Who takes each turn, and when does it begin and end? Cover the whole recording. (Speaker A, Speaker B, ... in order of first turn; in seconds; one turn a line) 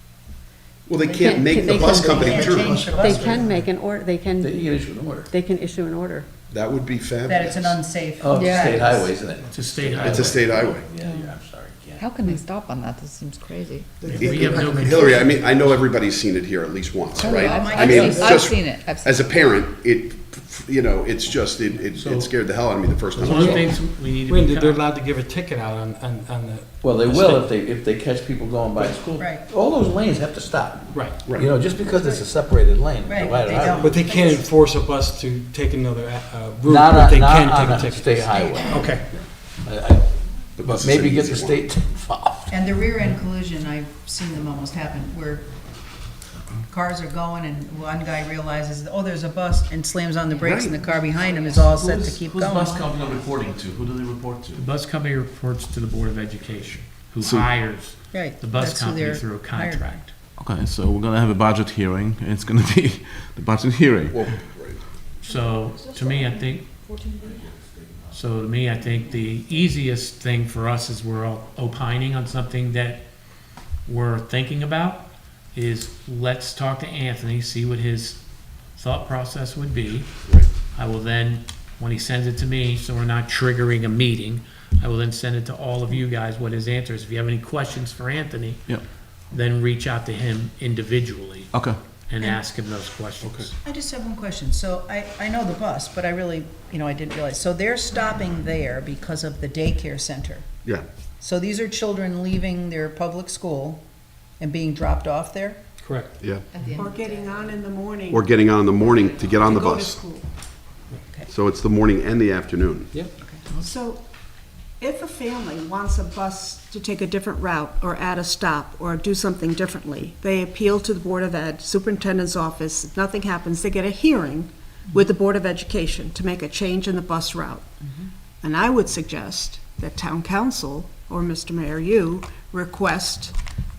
Speaker A: 0.9-2.9
Speaker B: 1.1-4.7
Speaker C: 1.2-3.5
Speaker D: 4.4-5.3
Speaker B: 5.3-6.3
Speaker A: 6.5-7.8
Speaker C: 7.3-9.1
Speaker D: 8.2-12.1
Speaker E: 8.4-8.7
Speaker F: 9.5-10.4
Speaker A: 10.0-10.9
Speaker E: 11.0-11.3
Speaker E: 12.0-14.4
Speaker F: 14.0-15.8
Speaker A: 14.1-23.6
Speaker E: 17.2-19.2
Speaker C: 17.2-18.4
Speaker F: 21.9-22.3
Speaker F: 23.2-24.8
Speaker G: 23.2-27.4
Speaker D: 26.8-34.1
Speaker C: 29.1-29.4
Speaker G: 30.9-31.2
Speaker C: 33.0-34.4
Speaker G: 33.7-39.1
Speaker D: 36.6-38.9
Speaker D: 39.6-42.5
Speaker A: 40.6-41.7
Speaker C: 42.5-45.5
Speaker C: 46.7-53.0
Speaker A: 50.4-50.8
Speaker D: 51.3-54.5
Speaker H: 53.2-54.6
Speaker F: 54.5-60.1
Speaker A: 57.2-57.5
Speaker C: 58.1-60.0
Speaker H: 60.4-64.3
Speaker A: 64.1-64.8
Speaker F: 65.2-66.7
Speaker E: 65.9-67.2
Speaker H: 67.3-67.5
Speaker F: 68.1-73.0
Speaker F: 73.8-78.2
Speaker F: 78.8-80.1
Speaker F: 80.7-88.8
Speaker F: 89.3-91.5
Speaker F: 92.1-93.5
Speaker A: 93.2-93.5
Speaker C: 93.6-100.5
Speaker C: 101.2-103.8
Speaker C: 104.4-105.6
Speaker G: 105.8-106.1
Speaker E: 106.5-107.1
Speaker I: 106.8-110.3
Speaker A: 108.1-110.0
Speaker C: 111.0-111.3
Speaker A: 111.3-112.9
Speaker I: 113.6-114.0
Speaker I: 114.8-127.7
Speaker I: 128.4-133.3